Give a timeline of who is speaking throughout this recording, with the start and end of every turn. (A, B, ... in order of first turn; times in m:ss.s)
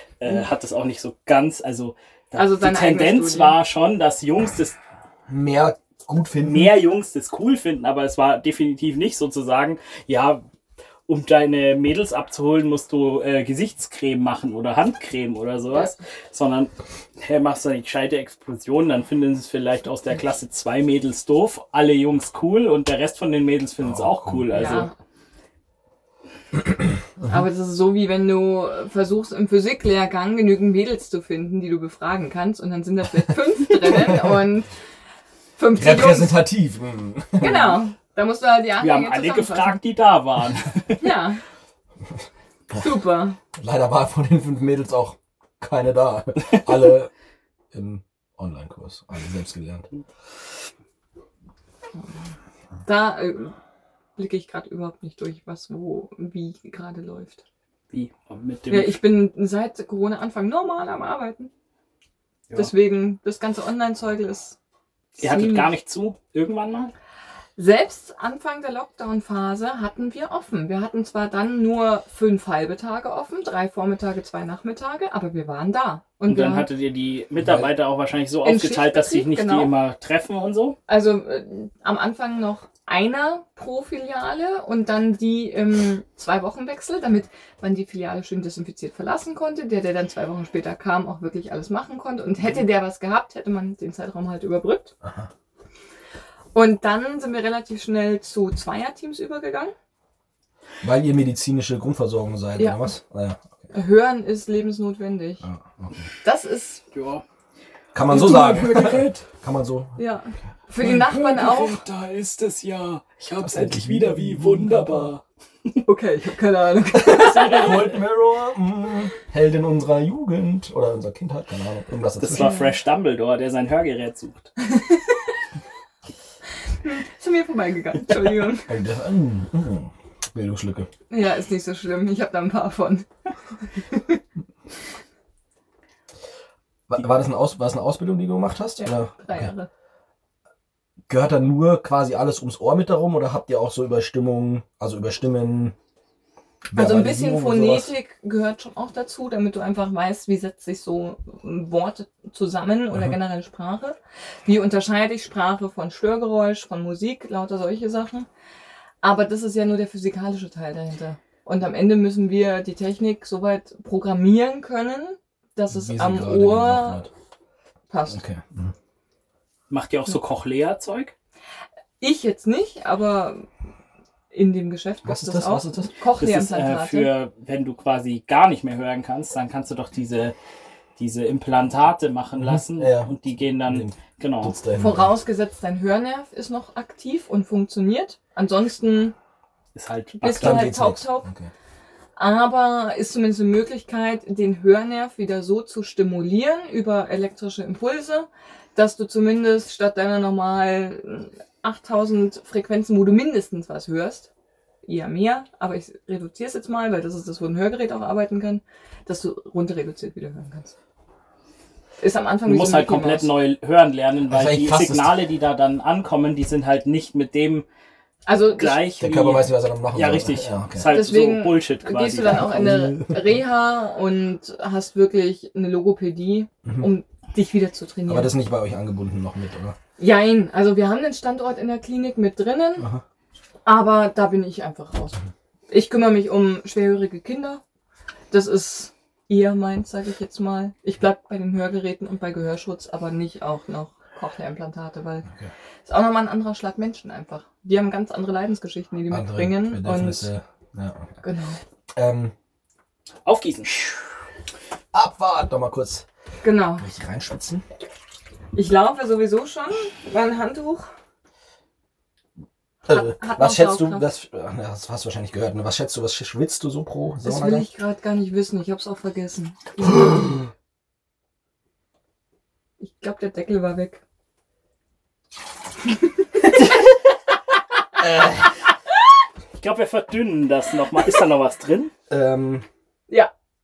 0:00.2-0:04.8 A
0:02.4-0:03.6 B
0:05.3-0:06.8 C
0:06.4-0:10.4 A
0:11.1-0:24.9 A
0:23.8-0:24.8 C
0:24.5-0:24.9 B
0:27.2-0:34.7 B
0:33.8-0:34.3 C
0:35.6-0:36.4 B
0:35.8-0:37.8 C
0:37.4-0:39.8 B
0:38.7-0:41.2 A
0:41.0-0:41.4 B
0:42.7-0:43.4 B
0:43.6-0:47.1 C
0:47.7-0:49.9 C
0:52.9-0:53.6 B
0:54.2-0:57.4 B
0:57.9-0:59.0 A
0:58.7-1:01.5 B
1:02.5-1:04.6 B
1:05.2-1:05.7 B
1:05.2-1:06.9 A
1:07.6-1:16.7 B
1:16.3-1:20.8 A
1:17.4-1:17.7 C
1:18.4-1:19.7 B
1:20.9-1:34.9 B
1:35.0-1:35.3 C
1:36.5-1:39.7 B
1:40.8-1:43.5 C
1:42.6-1:42.9 B
1:43.7-1:45.4 B
1:45.4-1:46.1 C
1:46.2-1:46.8 B
1:46.9-1:47.2 A
1:47.9-1:50.0 C
1:48.0-1:49.2 A
1:50.0-1:51.8 B
1:50.8-1:55.2 A
1:53.4-1:55.1 C
1:55.8-1:57.9 B
1:56.9-2:02.6 C
1:57.3-1:58.0 A
2:02.2-2:04.5 A
2:02.3-2:02.7 B
2:04.6-2:05.3 B
2:06.8-2:08.7 B
2:08.7-2:10.9 C
2:11.1-2:13.1 B
2:13.8-2:14.2 B
2:16.9-2:19.5 C
2:18.8-2:19.7 B
2:21.1-2:25.8 C
2:26.7-2:27.9 C
2:26.7-2:38.3 B
2:39.0-2:47.1 B
2:45.7-2:47.1 C
2:47.9-2:48.2 B
2:48.1-2:48.7 C
2:49.7-2:51.1 A
2:52.0-2:53.5 B
2:54.3-2:57.2 B
2:55.0-2:55.9 C
2:56.2-3:00.4 A
3:01.0-3:04.6 A
3:02.4-3:05.1 C
3:04.8-3:09.2 B
3:09.8-3:10.7 A
3:10.2-3:11.3 B
3:10.2-3:11.5 C
3:12.2-3:24.3 B
3:24.8-3:30.7 B
3:32.0-3:33.3 B
3:32.4-3:37.6 A
3:34.3-3:35.2 C
3:38.3-3:38.9 B
3:38.5-3:42.7 A
3:39.0-3:41.0 C
3:40.8-3:48.3 B
3:42.2-3:43.4 C
3:48.1-3:49.8 C
3:50.0-3:52.9 B
3:53.7-3:57.6 B
3:58.3-4:05.3 B
4:05.8-4:10.3 B
4:09.1-4:11.1 C
4:11.2-4:11.6 B
4:12.0-4:12.3 C
4:13.2-4:13.7 A
4:14.9-4:16.1 C
4:16.4-4:16.9 B
4:16.8-4:17.6 C
4:18.5-4:20.9 B
4:22.9-4:24.1 B
4:22.9-4:27.7 C
4:27.2-4:30.5 B
4:32.8-4:34.0 B
4:36.0-4:36.5 B
4:38.0-4:38.5 C
4:39.6-4:41.9 A
4:42.1-4:42.7 C